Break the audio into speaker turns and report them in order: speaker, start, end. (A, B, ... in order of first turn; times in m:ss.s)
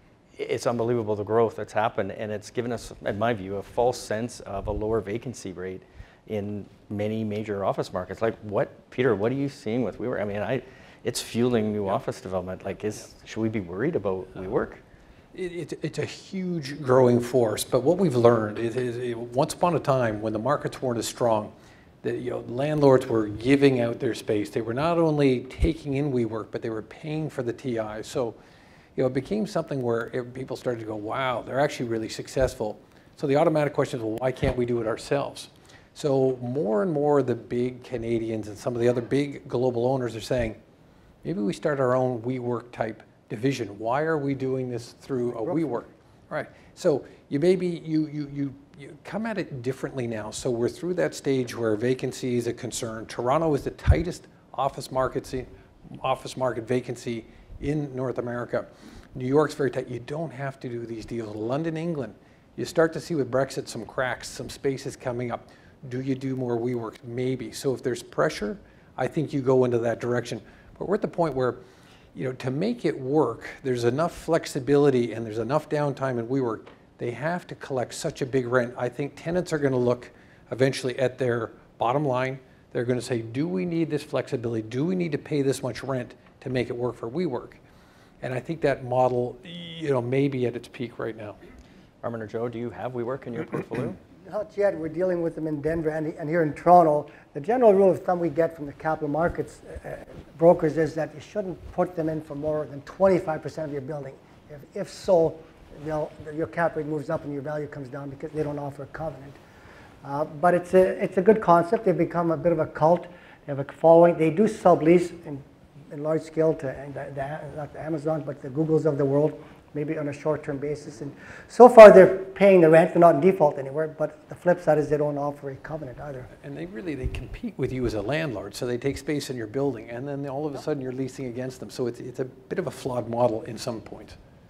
0:00.3-0:14.8 A
0:15.3-0:28.4 B
0:29.0-0:40.6 B
0:41.2-1:11.6 B
0:45.2-0:45.8 C
1:12.1-1:27.6 B
1:28.2-1:31.4 B
1:32.0-1:34.0 A
1:34.2-1:49.4 C
1:50.0-2:06.3 C
2:06.4-2:14.2 B